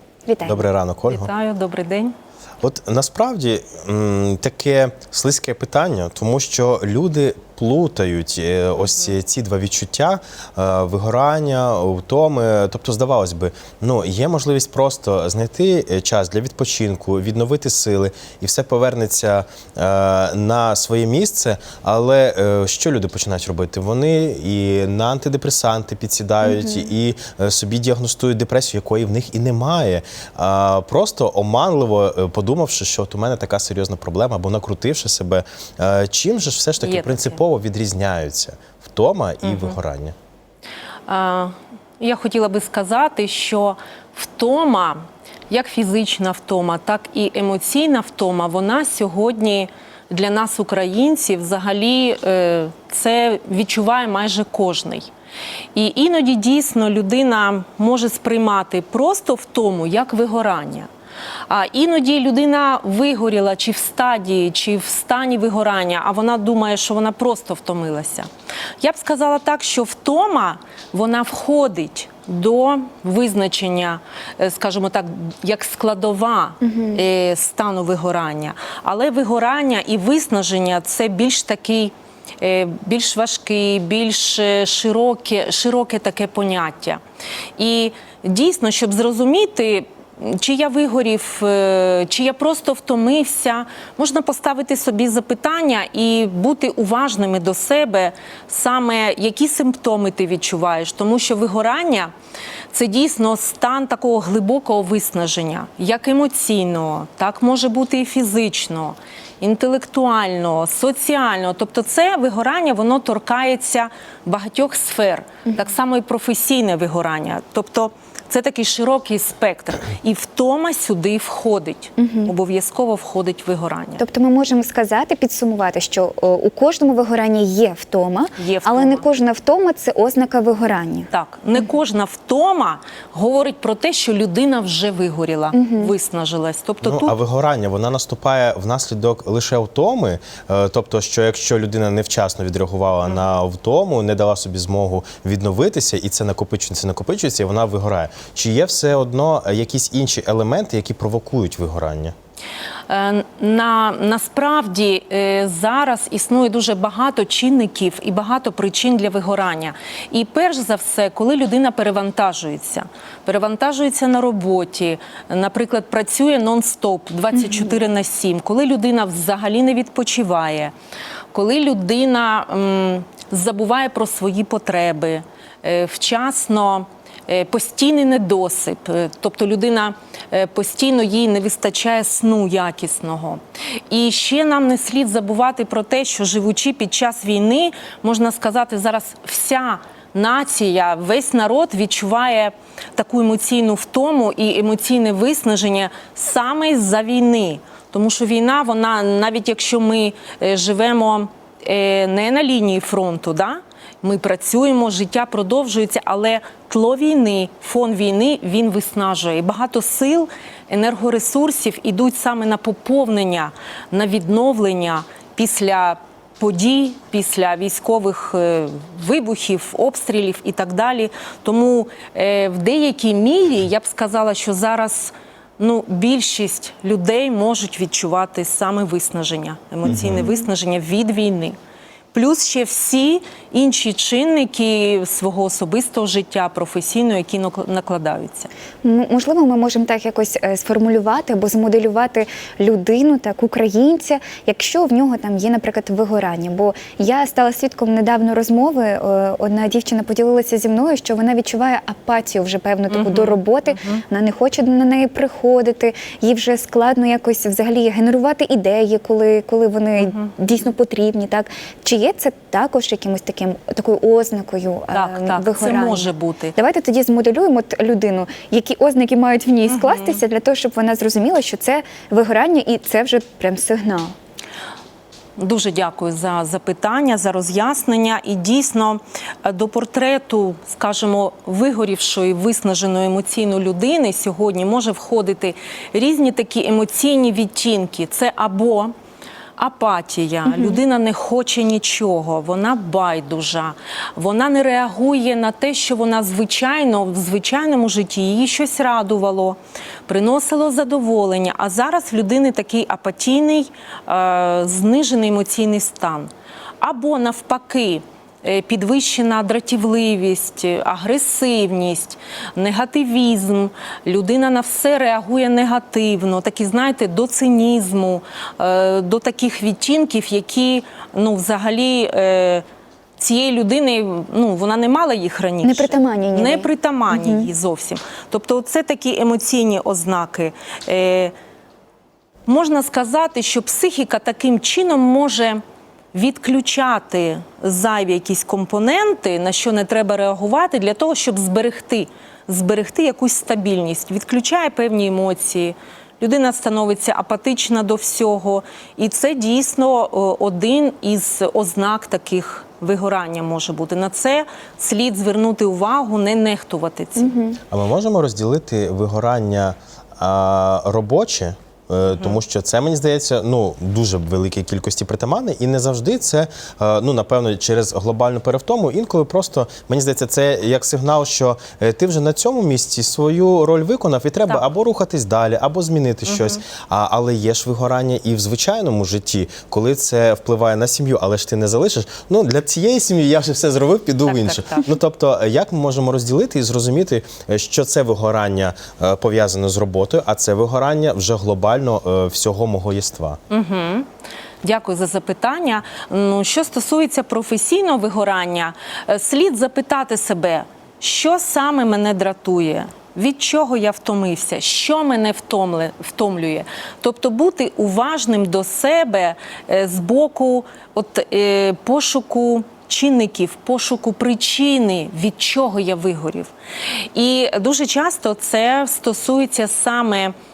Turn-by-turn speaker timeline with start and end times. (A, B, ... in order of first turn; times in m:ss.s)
0:00.3-0:00.7 A
0:00.5-0:01.3 B
0:01.1-0:02.1 C
0:02.6-0:40.2 B
0:26.4-0:26.9 A
0:36.8-0:37.4 C
0:39.4-0:39.8 C
0:41.1-0:55.1 C
0:55.8-1:00.9 C
1:01.5-1:08.3 C
1:08.8-1:27.0 C
1:16.6-1:17.0 A
1:27.6-1:42.1 C
1:42.7-2:04.0 C
2:02.0-2:02.3 A
2:04.0-2:11.7 A
2:08.4-2:09.0 C
2:11.1-2:17.2 C
2:15.5-2:15.9 A
2:16.8-2:32.1 B
2:32.9-2:50.7 C
2:47.4-2:47.7 A
2:51.3-3:51.6 C
3:49.8-3:50.3 B
3:52.1-3:58.5 C
3:58.8-4:34.1 A
4:12.9-4:14.0 C
4:20.0-4:20.3 C
4:24.9-4:26.6 C
4:29.7-4:30.2 C
4:35.4-4:48.9 C
4:49.6-5:06.3 C
4:50.5-4:50.8 A
5:06.8-5:22.6 C
5:23.2-5:31.3 C
5:25.6-5:27.5 A
5:32.5-5:35.6 C
5:36.1-5:57.3 C
5:57.2-5:57.6 A
5:57.7-6:33.4 B
6:02.0-6:02.4 C
6:16.3-6:16.6 C
6:24.2-6:24.9 C
6:33.5-6:34.1 C
6:34.6-6:56.5 C
6:57.1-7:00.3 C